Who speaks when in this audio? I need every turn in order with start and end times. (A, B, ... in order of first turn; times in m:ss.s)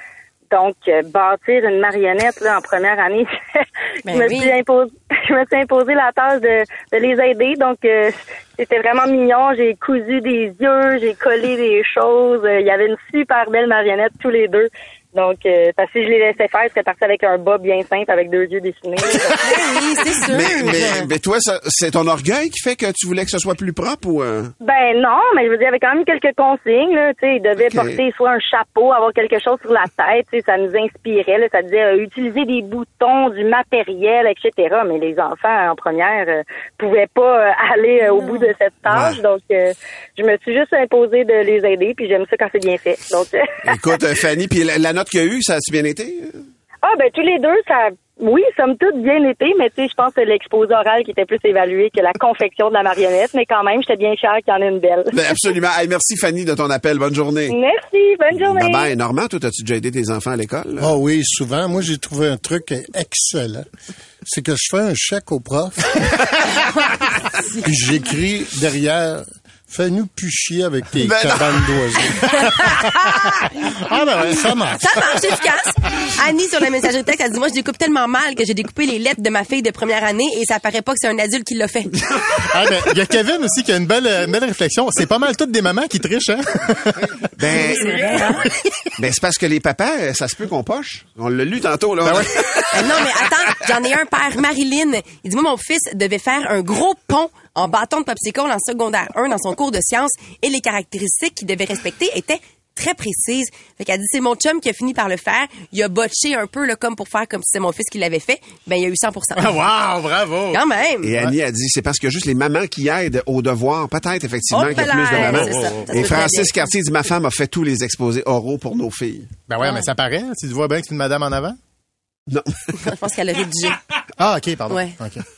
0:00.5-0:19.5 A
0:04.1-0:04.5 B
0:19.4-0:21.0 B
0:20.2-0:24.5 C
0:24.6-0:43.7 A
0:27.6-0:28.0 C
0:38.9-0:39.2 C
0:43.6-0:46.4 C
0:46.8-0:55.1 A
0:55.1-0:57.5 C
0:57.5-0:58.9 A
0:58.3-1:00.9 C
1:00.8-1:03.6 D
1:04.2-1:05.9 D
1:07.6-1:12.8 D
1:11.0-1:11.7 C
1:13.9-1:14.6 E
1:14.0-1:14.9 D
1:14.7-1:22.2 B
1:22.5-1:27.2 E
1:27.4-1:28.4 C
1:27.8-1:28.5 B
1:29.0-1:32.7 C
1:32.7-1:49.5 B
1:49.4-1:50.6 E
1:50.5-1:51.1 B
1:51.0-1:59.3 C
1:54.5-1:56.5 B
1:59.5-2:01.6 E
2:02.3-2:02.6 C
2:02.8-2:03.8 B
2:04.2-2:05.2 E
2:04.7-2:04.9 B